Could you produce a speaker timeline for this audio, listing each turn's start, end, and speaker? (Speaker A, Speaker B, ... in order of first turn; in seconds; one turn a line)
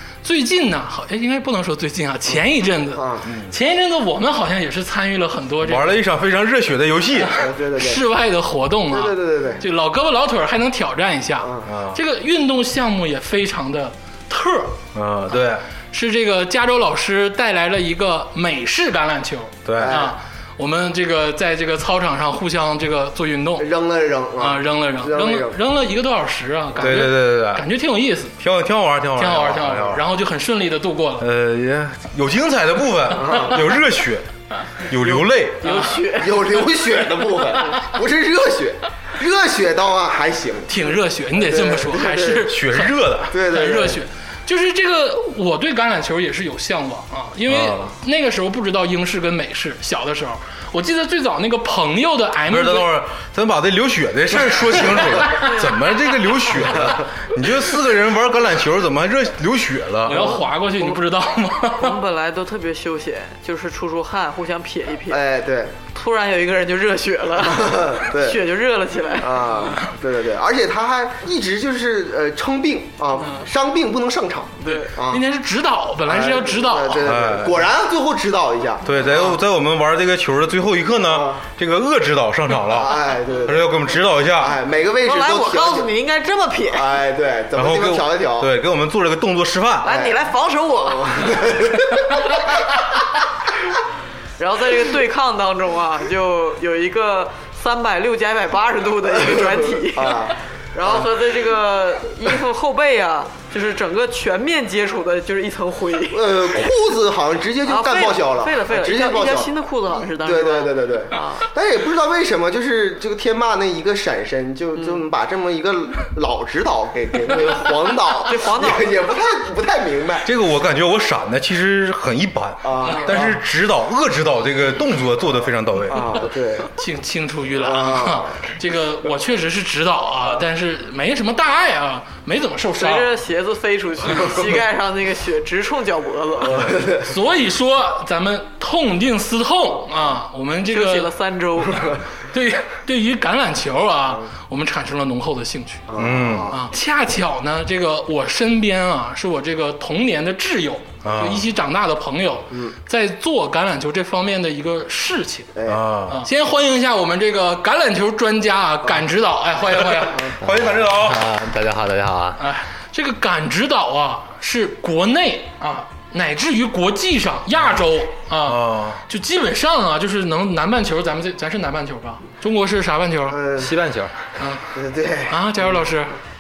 Speaker A: 0.2-6.0
Speaker B: 3.0-3.3
Speaker C: 3.3-3.5
Speaker C: 5.6-7.3
Speaker A: 7.2-23.7
Speaker B: 7.3-8.1
Speaker B: 8.9-9.6
Speaker B: 11.4-11.7
Speaker C: 11.7-12.0
Speaker C: 14.9-15.7
Speaker C: 19.6-20.0
Speaker B: 19.8-20.2
Speaker B: 23.6-25.6
Speaker A: 24.4-28.4
Speaker C: 26.8-27.7
Speaker C: 28.4-30.1
Speaker A: 29.2-31.3
Speaker C: 31.2-34.2
Speaker B: 33.2-33.6
Speaker C: 34.8-35.8
Speaker D: 35.6-37.0
Speaker B: 36.0-42.5
Speaker A: 40.7-52.9
Speaker C: 42.5-43.4
Speaker B: 43.3-44.0
Speaker C: 47.5-47.9
Speaker C: 52.5-60.4
Speaker A: 54.8-55.6
Speaker D: 55.4-55.9
Speaker A: 60.0-62.0
Speaker D: 61.7-65.3
Speaker B: 65.1-65.8
Speaker D: 65.9-69.7
Speaker B: 67.4-68.4
Speaker B: 69.2-75.2
Speaker D: 74.6-74.9
Speaker A: 74.6-77.1
Speaker B: 76.1-78.9
Speaker C: 77.0-77.7
Speaker C: 78.8-84.6
Speaker B: 81.1-81.4
Speaker B: 82.7-85.9
Speaker D: 85.0-87.0
Speaker B: 86.7-88.5
Speaker C: 87.5-89.9
Speaker B: 89.8-90.3
Speaker D: 89.8-91.4
Speaker B: 90.8-92.5
Speaker D: 94.4-106.6
Speaker B: 99.9-101.1
Speaker B: 106.1-109.5
Speaker D: 107.6-111.4
Speaker B: 110.2-120.3
Speaker D: 114.8-115.0
Speaker D: 117.9-119.1
Speaker C: 120.2-126.2
Speaker B: 122.6-123.3
Speaker A: 122.8-123.1
Speaker B: 125.9-126.7
Speaker A: 126.8-133.2
Speaker B: 127.6-128.4
Speaker D: 132.8-136.7
Speaker B: 136.5-137.1
Speaker A: 137.0-141.1
Speaker D: 140.7-142.0
Speaker A: 142.3-145.9
Speaker B: 145.9-146.6
Speaker C: 145.9-146.5
Speaker A: 146.5-155.5
Speaker C: 151.0-151.5
Speaker B: 155.6-155.8
Speaker C: 155.7-156.3
Speaker A: 156.1-160.3
Speaker C: 160.3-161.2
Speaker E: 160.4-162.4
Speaker A: 162.4-173.4
Speaker C: 168.4-169.0
Speaker B: 173.3-173.8
Speaker E: 173.6-174.2
Speaker A: 174.4-174.8
Speaker B: 174.7-175.7
Speaker A: 175.3-176.1